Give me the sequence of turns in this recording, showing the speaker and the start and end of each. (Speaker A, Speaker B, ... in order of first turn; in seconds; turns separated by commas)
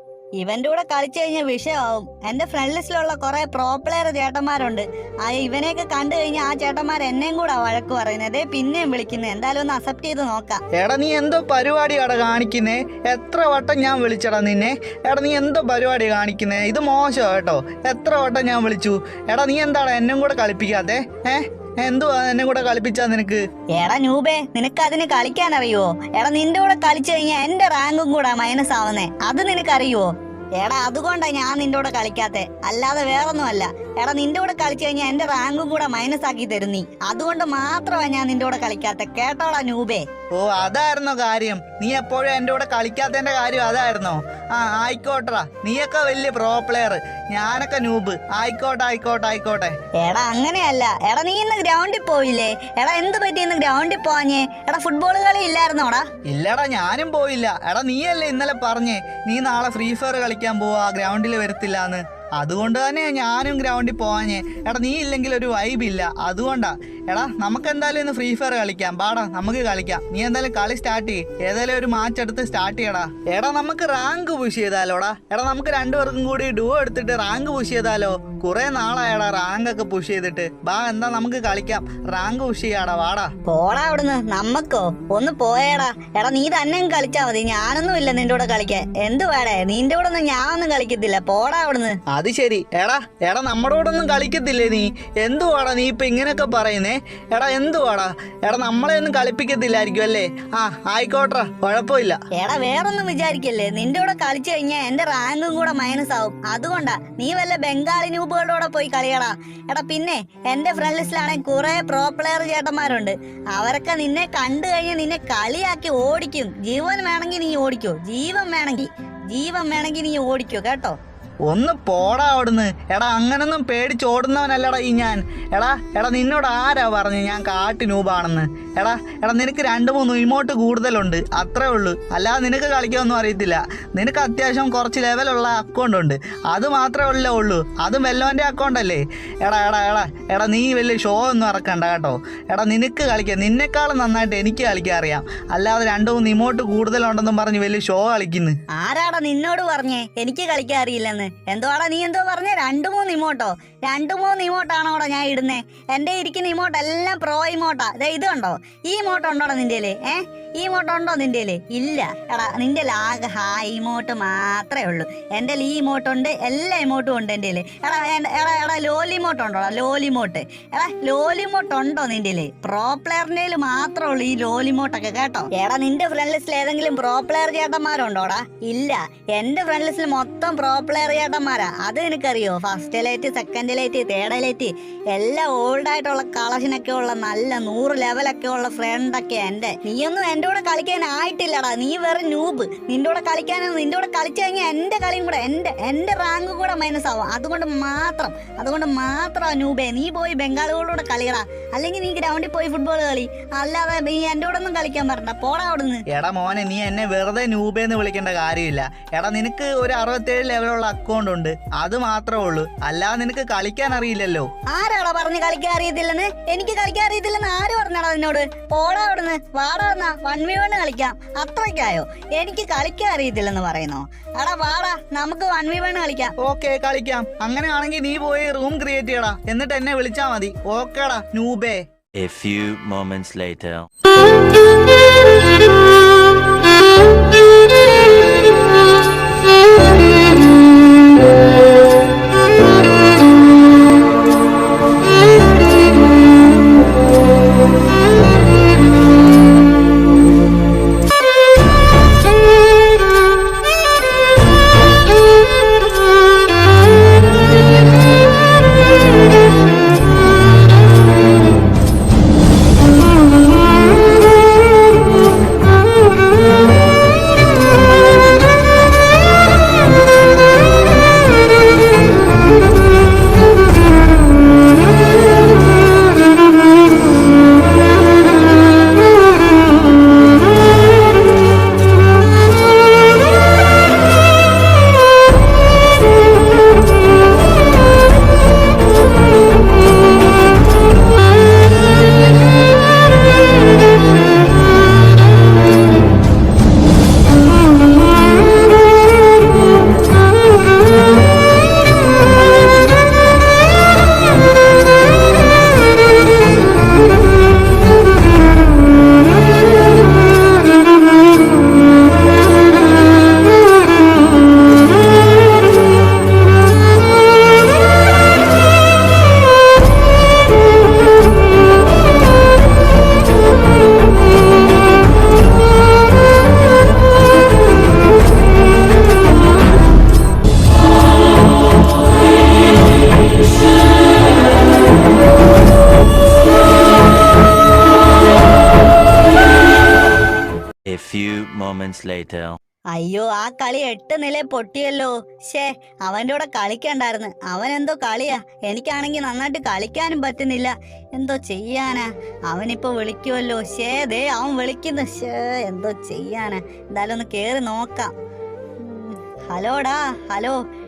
Speaker A: 0.4-10.6, Speaker B: 10.8-23.4, Speaker A: 23.8-40.0, Speaker B: 40.3-49.7, Speaker A: 50.0-56.0, Speaker B: 56.3-83.3, Speaker A: 83.5-92.0, Speaker B: 92.1-102.2, Speaker A: 102.4-121.0, Speaker B: 121.5-148.6, Speaker A: 148.7-206.0, Speaker B: 206.1-214.5, Speaker A: 214.7-226.3, Speaker B: 226.4-231.8, Speaker C: 232.2-233.8, Speaker C: 340.9-342.6, Speaker A: 342.9-358.1, Speaker A: 358.8-360.6